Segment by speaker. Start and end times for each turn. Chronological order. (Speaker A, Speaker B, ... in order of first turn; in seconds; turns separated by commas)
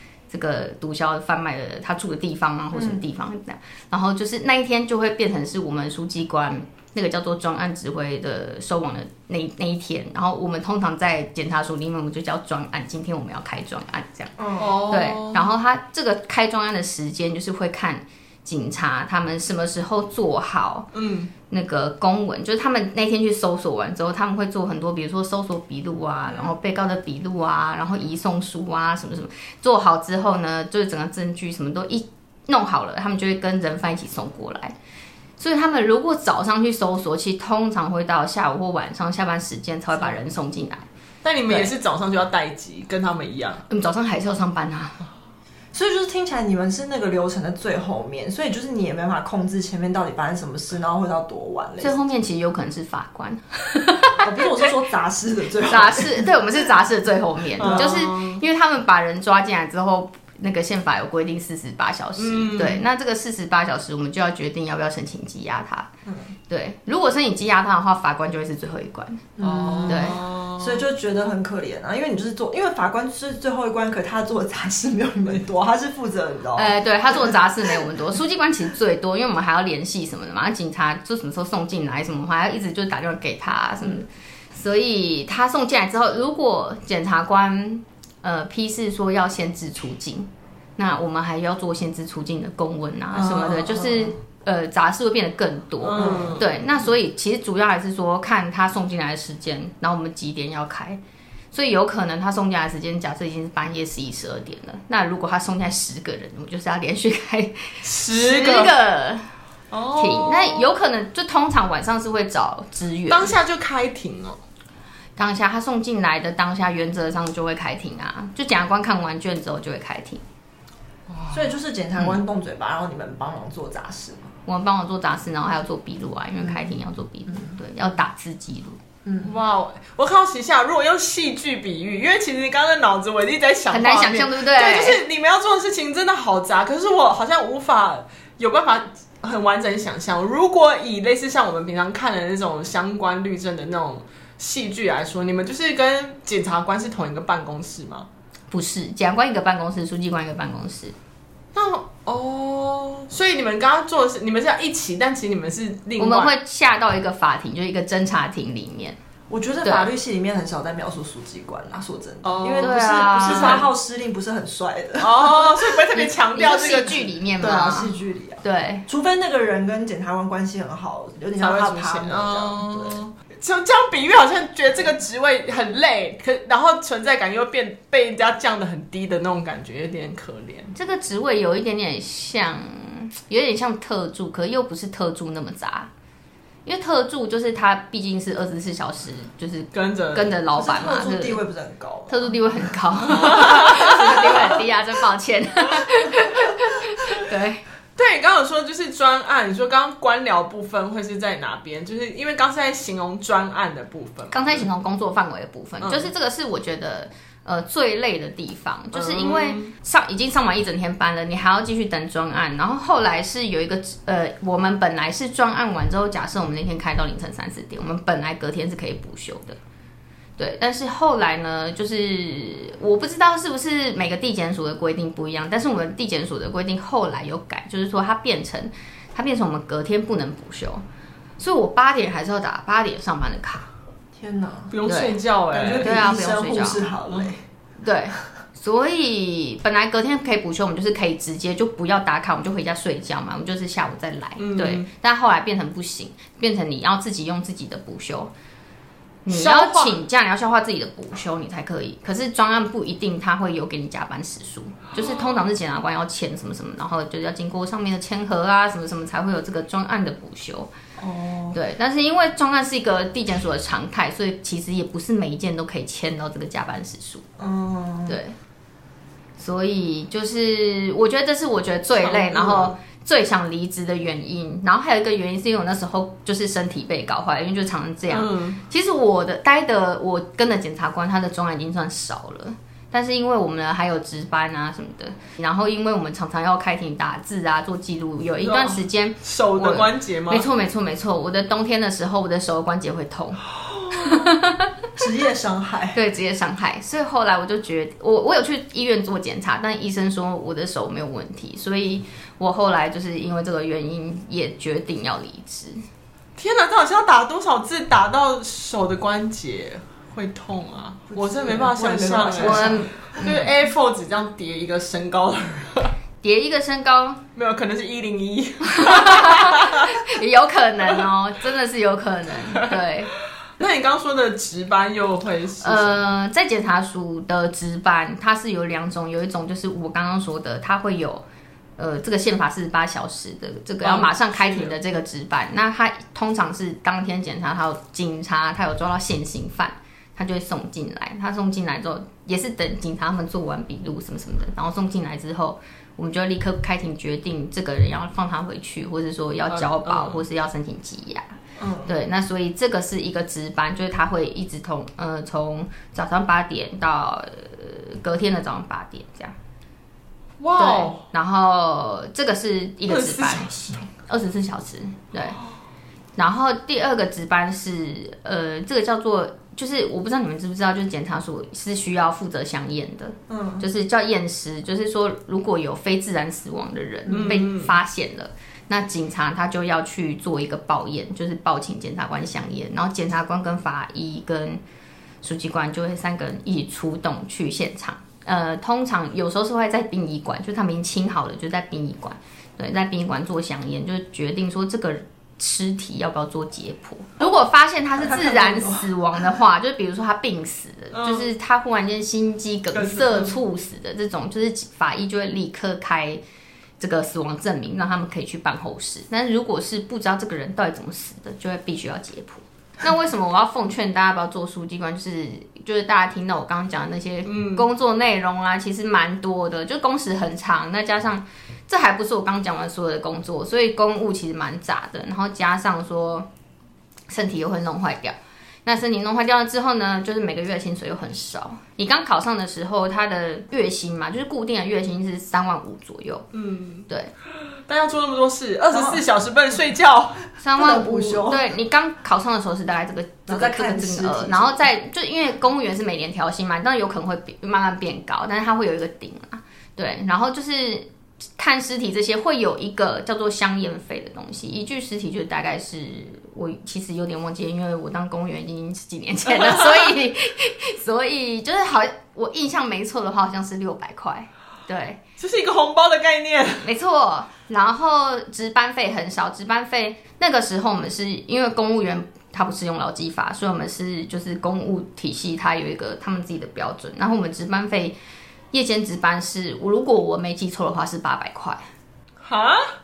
Speaker A: 0.3-20.9, Speaker B: 2.7-3.0, Speaker B: 14.4-14.9, Speaker C: 14.6-15.5, Speaker C: 20.9-21.3, Speaker A: 21.5-34.7, Speaker A: 35.4-40.9, Speaker C: 41.2-43.6, Speaker A: 43.7-45.0, Speaker B: 45.7-52.0, Speaker A: 51.8-54.2, Speaker B: 54.2-56.6, Speaker A: 55.7-65.9, Speaker C: 57.6-58.4, Speaker B: 57.6-58.0, Speaker C: 62.2-62.8, Speaker B: 66.1-66.3, Speaker A: 66.5-69.3, Speaker B: 69.4-77.3, Speaker C: 69.4-70.8, Speaker A: 69.9-70.2, Speaker A: 76.6-101.0, Speaker B: 93.1-94.1, Speaker C: 95.8-96.4, Speaker B: 96.0-96.4, Speaker A: 101.5-109.3, Speaker C: 107.8-108.8, Speaker C: 109.7-110.7, Speaker A: 109.9-113.3, Speaker C: 113.1-114.4, Speaker A: 115.2-120.2, Speaker C: 121.1-121.5, Speaker B: 121.3-124.3, Speaker A: 124.5-128.8, Speaker B: 126.4-126.7, Speaker B: 129.1-129.3, Speaker C: 129.2-148.1, Speaker A: 133.7-135.0, Speaker A: 148.5-150.9, Speaker C: 151.6-156.3, Speaker A: 156.0-159.0, Speaker B: 159.3-165.8, Speaker A: 159.6-159.9, Speaker C: 162.2-163.7, Speaker A: 162.6-163.6, Speaker C: 165.0-167.1, Speaker A: 165.9-168.8, Speaker B: 167.4-173.0, Speaker C: 171.4-180.7, Speaker A: 180.8-185.9, Speaker A: 186.7-191.4, Speaker C: 189.7-190.3, Speaker B: 190.5-192.7, Speaker A: 192.1-197.6, Speaker C: 193.2-194.2, Speaker B: 193.7-194.6, Speaker C: 198.0-204.7, Speaker A: 204.3-219.6, Speaker C: 205.8-206.1, Speaker C: 208.9-209.7, Speaker A: 220.4-230.8, Speaker A: 231.4-233.7, Speaker B: 234.2-234.8, Speaker C: 234.7-235.9, Speaker A: 234.9-235.2, Speaker B: 235.5-237.4, Speaker A: 235.8-236.9, Speaker A: 237.8-248.3, Speaker C: 244.4-244.9, Speaker A: 249.2-260.7, Speaker C: 249.3-250.0, Speaker C: 255.0-255.4, Speaker B: 261.0-261.6, Speaker A: 261.5-267.2, Speaker B: 267.4-268.2, Speaker A: 268.1-268.4, Speaker A: 269.4-293.4, Speaker C: 272.0-272.7, Speaker C: 278.1-278.6, Speaker C: 288.4-290.5, Speaker C: 293.7-294.2, Speaker A: 293.9-294.7, Speaker B: 295.0-296.0, Speaker A: 295.9-305.8, Speaker C: 306.4-315.9, Speaker B: 311.1-313.4, Speaker A: 312.4-313.3, Speaker A: 316.2-317.2, Speaker C: 317.4-320.0, Speaker A: 318.7-323.1, Speaker C: 323.6-326.0, Speaker A: 325.6-331.2, Speaker A: 331.8-351.4, Speaker C: 333.8-334.8, Speaker C: 349.5-350.2, Speaker B: 351.6-351.9, Speaker A: 351.9-359.3, Speaker C: 360.4-361.0, Speaker A: 360.6-363.5, Speaker C: 362.9-363.9, Speaker A: 364.1-365.4, Speaker A: 366.2-384.6, Speaker B: 373.3-373.7, Speaker B: 377.1-377.4, Speaker C: 377.1-377.8, Speaker A: 385.2-406.2, Speaker B: 398.0-398.9, Speaker C: 400.9-401.3, Speaker C: 402.7-403.4, Speaker A: 406.8-426.3, Speaker C: 417.3-417.7, Speaker A: 427.1-436.3, Speaker C: 436.3-436.9, Speaker C: 437.6-440.2, Speaker B: 438.7-439.0, Speaker A: 440.4-465.0, Speaker B: 440.5-441.4, Speaker B: 443.3-444.6, Speaker C: 459.3-459.9, Speaker C: 465.2-466.7, Speaker A: 466.6-478.0, Speaker A: 478.5-481.6, Speaker C: 482.2-482.8